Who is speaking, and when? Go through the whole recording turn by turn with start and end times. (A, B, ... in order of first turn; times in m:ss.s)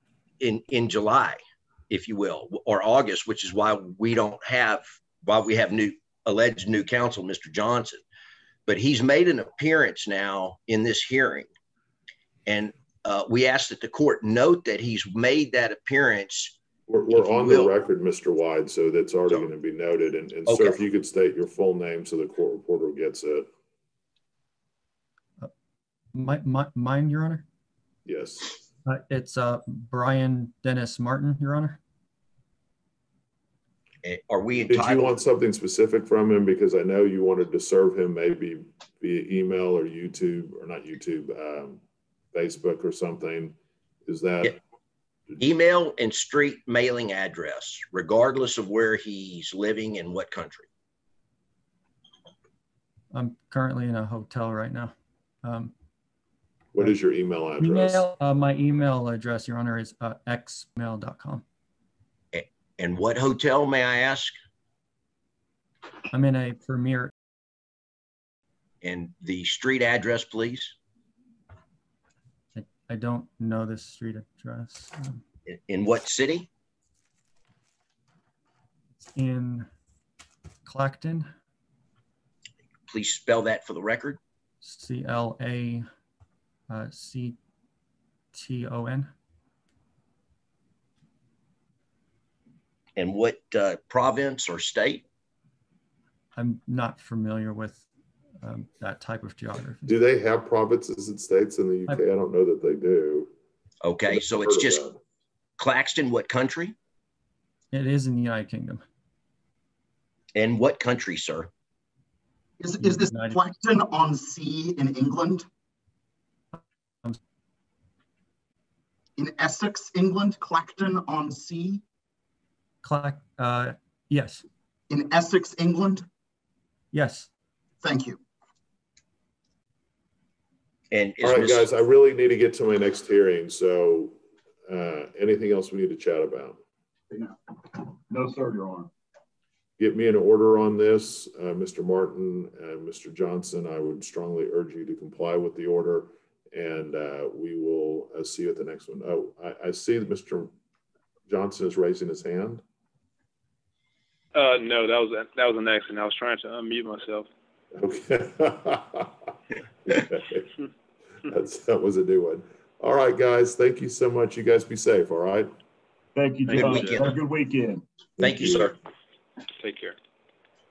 0:00.4-0:08.0 A
0:08.7-0:11.5 A
0:12.4-0:16.6 A
0:16.9-0:23.5 B
0:17.1-0:17.7 A
0:20.5-0:20.8 A
0:26.1-0:27.4 C
0:28.0-0:28.6 B
0:28.8-0:31.8 C
0:34.0-0:35.1 A
0:34.6-0:41.8 B
0:42.3-0:44.6 B
0:45.4-0:50.7 A
0:53.1-0:54.9 C
0:55.4-0:55.7 C
0:56.7-0:58.0 B
0:57.6-1:01.4 C
1:02.3-1:04.4 A
1:06.1-1:07.1 C
1:08.8-1:10.8 A
1:12.5-1:15.2 C
1:15.5-1:16.5 A
1:19.0-1:19.7 C
1:20.6-1:21.3 C
1:22.9-1:24.2 A
1:24.6-1:25.9 C
1:26.7-1:27.4 C
1:28.3-1:29.1 C
1:33.0-1:35.0 A
1:36.3-1:37.9 C
1:38.4-1:39.9 C
1:39.8-1:43.3 B
1:43.8-1:44.8 A
1:44.1-1:45.0 B
1:45.6-1:46.8 A
1:47.7-1:48.8 C
1:50.3-1:51.5 A
1:52.6-1:55.5 D
1:52.8-1:53.4 C
1:59.2-2:01.8 D
2:02.8-2:04.4 C
2:04.9-2:06.0 D
2:06.9-2:07.3 C
2:07.8-2:08.2 D
2:10.9-2:11.7 A
2:11.2-2:16.6 B
2:17.1-2:18.9 E
2:19.8-2:30.5 B
2:31.3-2:32.6 B
2:34.3-2:37.3 F
2:37.8-2:39.1 B
2:39.8-2:40.5 B
2:41.2-2:45.5 B
2:46.1-2:47.8 E
2:46.5-2:47.1 F
2:46.5-2:47.1 A
2:48.2-2:48.8 A
2:49.6-2:50.0 F